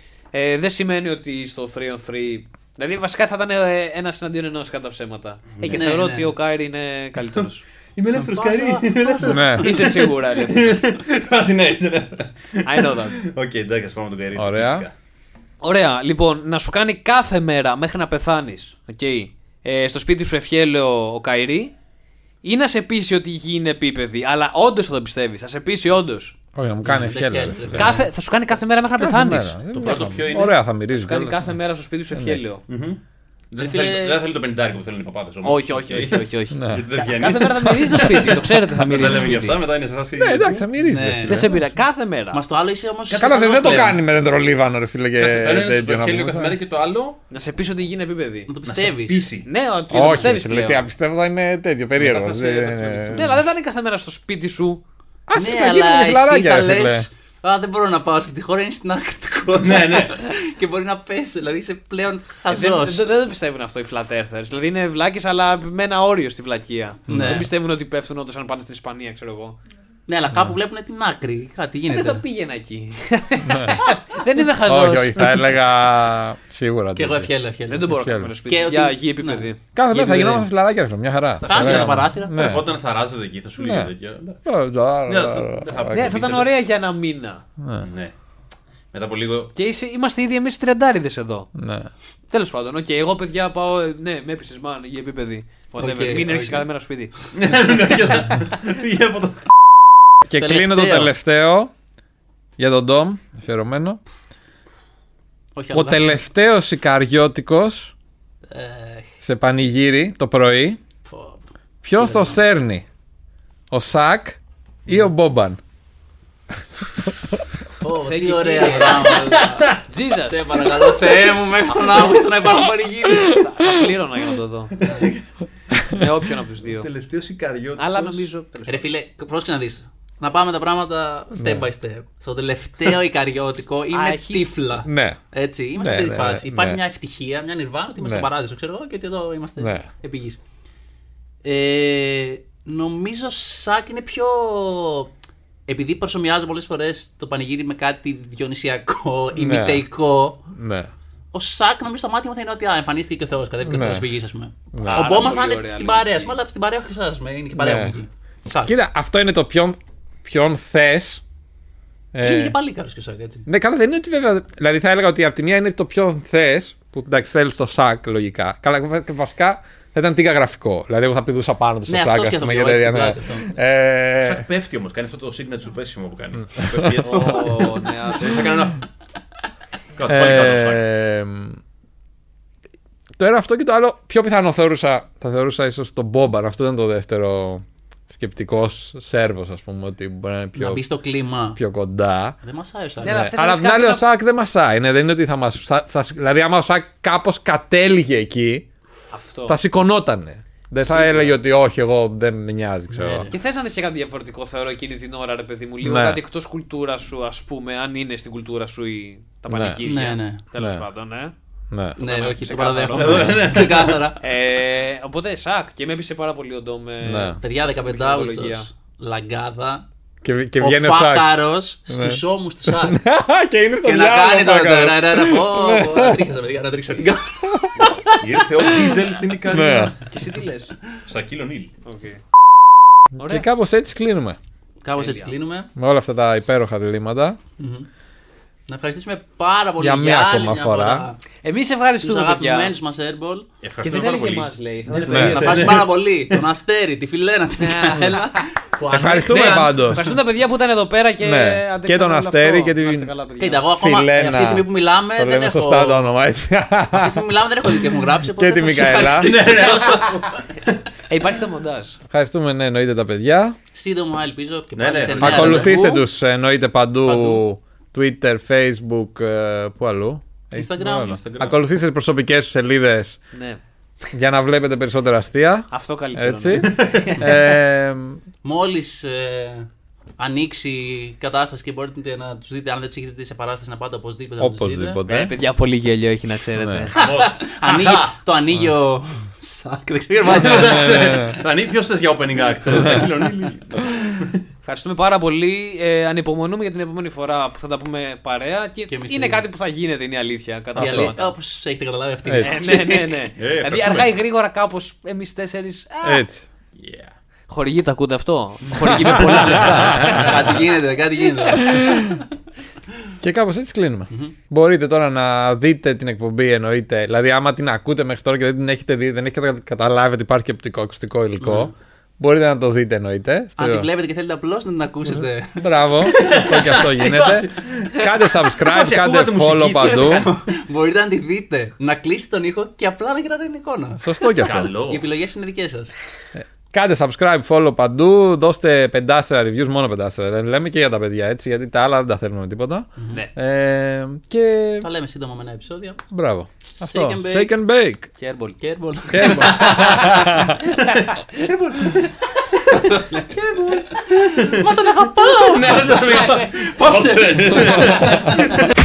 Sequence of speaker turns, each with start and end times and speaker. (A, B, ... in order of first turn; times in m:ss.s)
0:00.3-0:07.6 A
0:05.6-0:05.8 B
0:05.7-0:06.3 C
0:07.2-0:14.9 B
0:08.1-0:09.7 C
0:09.2-0:09.7 D
0:09.6-0:10.8 A
0:12.6-0:13.2 A
0:14.4-0:14.9 D
0:15.6-0:21.7 A
0:22.4-0:26.4 A
0:26.5-0:28.0 D
0:26.8-0:28.1 C
0:27.8-0:30.0 A
0:29.0-0:31.6 D
0:29.7-0:30.6 B
0:31.0-0:32.6 A
0:32.1-0:32.4 D
0:32.7-0:33.0 B
0:33.5-0:40.7 B
0:33.6-0:34.2 C
0:35.4-0:39.6 A
0:36.5-0:36.9 D
0:40.2-0:41.6 D
0:40.8-0:41.7 C
0:41.3-0:42.4 A
0:42.3-0:44.1 C
0:43.1-0:44.0 B
0:43.2-0:46.6 D
0:45.2-0:47.2 B
0:47.3-0:48.5 A
0:48.5-0:49.3 C
0:48.6-0:49.5 B
0:49.4-0:50.8 A
0:49.9-0:53.4 D
0:52.0-0:54.8 A
0:55.3-0:57.1 D
0:55.3-1:03.1 C
0:59.6-1:00.1 B
1:02.5-1:09.6 A
1:07.1-1:07.4 C
1:07.1-1:07.4 D
1:10.1-1:12.2 C
1:11.9-1:15.4 A
1:13.4-1:13.8 D
1:14.6-1:18.3 D
1:17.0-1:19.5 C
1:17.7-1:20.5 A
1:19.7-1:22.7 D
1:21.4-1:24.4 B
1:21.4-1:22.5 C
1:23.6-1:23.9 D
1:24.4-1:26.2 D
1:25.0-1:26.5 B
1:25.9-1:27.4 A
1:27.6-1:27.9 D
1:27.8-1:28.1 B
1:28.9-1:29.5 B
1:29.5-1:31.5 A
1:31.5-1:31.9 D
1:32.3-1:37.1 A
1:35.8-1:36.7 C
1:37.3-1:39.4 B
1:40.3-1:41.7 D
1:40.3-1:41.1 C
1:42.6-1:44.0 D
1:45.5-1:46.2 C
1:45.7-1:47.9 D
1:48.5-1:49.1 C
1:49.2-1:50.8 D
1:51.0-1:52.4 C
1:51.8-1:52.8 D
1:53.7-1:55.6 D
1:57.8-2:03.4 C
1:57.9-1:59.2 A
1:59.4-1:59.8 B
1:59.9-2:00.7 A
2:01.9-2:02.2 A
2:03.3-2:04.8 A
2:03.4-2:03.8 D
2:04.8-2:05.1 C
2:04.8-2:05.2 B
2:05.9-2:06.9 A
2:06.6-2:08.8 B
2:07.8-2:08.7 A
2:08.7-2:20.4 C
2:11.3-2:11.7 D
2:13.9-2:14.5 A
2:14.8-2:15.2 D
2:15.8-2:16.8 D
2:18.0-2:18.3 D
2:19.6-2:19.9 D
2:21.4-2:25.1 C
2:25.7-2:30.4 C
2:29.3-2:29.9 D
2:30.5-2:30.9 D
2:31.3-2:38.7 C
2:33.7-2:34.1 D
2:34.7-2:35.1 D
2:34.8-2:36.3 A
2:37.6-2:38.0 D
2:38.6-2:41.2 D
2:42.1-2:42.5 D
2:42.2-2:43.4 C
2:43.5-2:54.4 D
2:51.9-2:53.5 C
2:54.2-2:58.8 B
2:57.0-2:58.5 A
3:00.0-3:00.8 B
3:00.1-3:01.6 D
3:03.2-3:10.8 D
3:10.6-3:11.6 C
3:11.5-3:12.4 D
3:12.4-3:13.2 C
3:13.0-3:14.0 A
3:13.0-3:18.7 D
3:19.1-3:19.6 A
3:19.5-3:23.3 D
3:20.8-3:21.4 A
3:22.9-3:23.3 C
3:23.3-3:31.3 A
3:25.8-3:26.2 D
3:29.5-3:29.8 D
3:29.8-3:30.4 C
3:30.6-3:30.8 D
3:31.7-3:32.0 D
3:31.9-3:33.5 A
3:32.0-3:34.2 C
3:32.9-3:34.0 B
3:34.2-3:38.7 A
3:37.0-3:37.4 D
3:37.4-3:39.8 C
3:40.2-3:46.2 D
3:40.6-3:43.0 C
3:43.8-3:48.2 C
3:47.4-3:47.7 D
3:48.2-3:50.0 B
3:49.4-3:50.0 D
3:50.1-3:50.7 A
3:51.0-3:51.7 B
3:51.8-3:52.2 A
3:53.1-3:54.4 D
3:53.2-3:53.4 A
3:54.8-3:55.7 C
3:55.0-3:55.3 A
3:55.8-3:57.4 D
3:57.6-3:57.9 C
3:58.7-4:01.2 C
3:59.8-4:01.0 D
4:01.4-4:02.7 A
4:02.0-4:03.5 C
4:03.6-4:06.4 B
4:03.8-4:05.8 A
4:05.1-4:05.4 D
4:05.2-4:09.9 C
4:07.6-4:08.4 A
4:08.9-4:10.0 D
4:09.2-4:13.7 A
4:11.2-4:13.1 D
4:13.4-4:16.1 C
4:13.7-4:17.2 D
4:16.9-4:20.2 C
4:18.2-4:19.5 D
4:19.1-4:20.8 B
4:21.1-4:22.0 A
4:22.1-4:23.6 D
4:23.7-4:26.0 C
4:24.8-4:25.7 B
4:25.2-4:33.2 D
4:27.0-4:27.4 C
4:30.5-4:31.2 C
4:31.0-4:31.6 B
4:33.3-4:33.6 A
4:34.1-4:38.2 D
4:35.7-4:37.4 A
4:36.5-4:37.1 B
4:38.4-4:45.0 C
4:44.4-4:45.3 D
4:45.0-4:46.9 A
4:46.6-4:46.9 D
4:46.9-4:48.1 B
4:47.0-4:51.0 C
4:50.1-4:54.4 B
4:50.6-4:51.3 D
4:54.6-5:01.3 A
4:58.9-4:59.4 C
5:00.8-5:01.1 D
5:00.8-5:03.2 C
5:02.2-5:02.5 D
5:02.4-5:06.2 A
5:03.4-5:04.1 B
5:06.0-5:06.5 D
5:06.8-5:07.1 B
5:07.5-5:10.6 A
5:09.0-5:10.4 D
5:09.2-5:12.2 C
5:11.8-5:12.0 D
5:13.2-5:23.9 D
5:14.1-5:14.3 C
5:21.4-5:21.7 C
5:23.6-5:26.3 C
5:25.1-5:30.3 D
5:26.2-5:30.3 B
5:29.8-5:35.9 C
5:34.0-5:34.7 D
5:34.4-5:35.1 B
5:36.4-5:44.9 D
5:44.8-5:46.0 C
5:46.1-5:48.1 D
5:46.7-5:47.5 C
5:48.2-5:48.6 A
5:48.6-5:49.8 C
5:49.1-5:50.6 D
5:49.4-5:58.7 B
5:52.7-5:53.2 C
5:54.1-5:58.4 C